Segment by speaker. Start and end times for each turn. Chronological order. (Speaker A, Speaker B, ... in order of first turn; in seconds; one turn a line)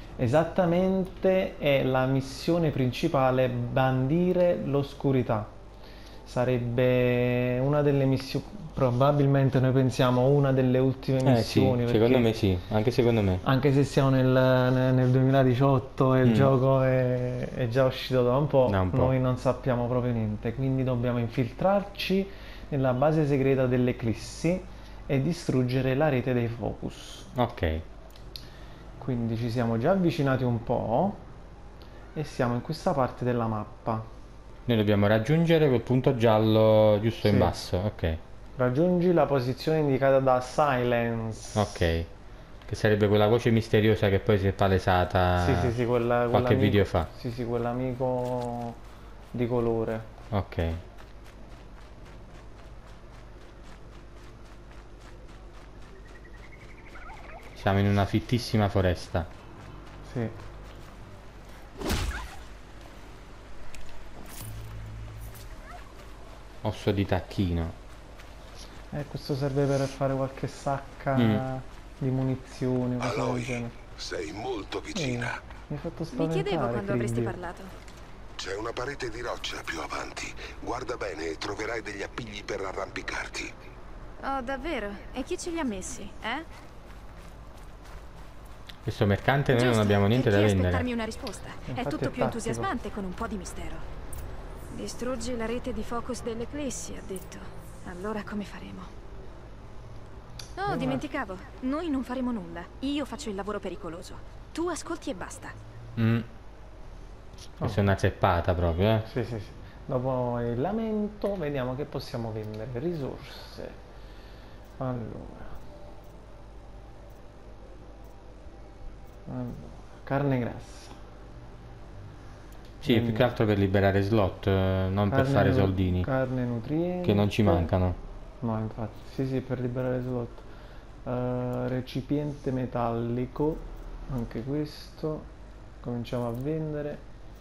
Speaker A: 0.2-5.5
Speaker A: 6.3-12.3
Speaker B: 11.2-13.4
Speaker A: 13.4-27.3
Speaker B: 16.2-16.5
Speaker B: 18.7-19.1
Speaker B: 27.4-27.9
Speaker A: 29.0-31.2
Speaker A: 32.1-34.1
Speaker B: 34.7-38.2
Speaker A: 37.2-37.5
Speaker A: 38.6-41.8
Speaker B: 41.5-42.1
Speaker B: 42.7-45.7
Speaker A: 45.4-48.8
Speaker B: 46.3-47.1
Speaker A: 49.3-50.1
Speaker B: 50.3-50.8
Speaker B: 57.6-59.3
Speaker A: 60.0-60.4
Speaker B: 66.6-67.8
Speaker A: 68.9-73.7
Speaker B: 71.2-71.4
Speaker C: 73.0-75.4
Speaker A: 74.9-77.4
Speaker D: 76.1-77.7
Speaker C: 78.4-83.5
Speaker D: 84.2-86.5
Speaker B: 88.8-90.9
Speaker D: 89.5-93.8
Speaker A: 91.7-92.7
Speaker D: 94.7-98.9
Speaker D: 100.6-105.5
Speaker A: 100.7-101.0
Speaker B: 106.0-106.3
Speaker A: 107.6-107.9
Speaker B: 107.6-109.1
Speaker A: 109.1-113.8
Speaker A: 114.8-115.6
Speaker A: 119.3-121.0
Speaker B: 122.8-126.1
Speaker A: 122.8-123.3
Speaker A: 125.1-127.7
Speaker B: 127.0-128.0
Speaker A: 128.4-130.5
Speaker A: 131.1-135.3
Speaker A: 135.8-137.0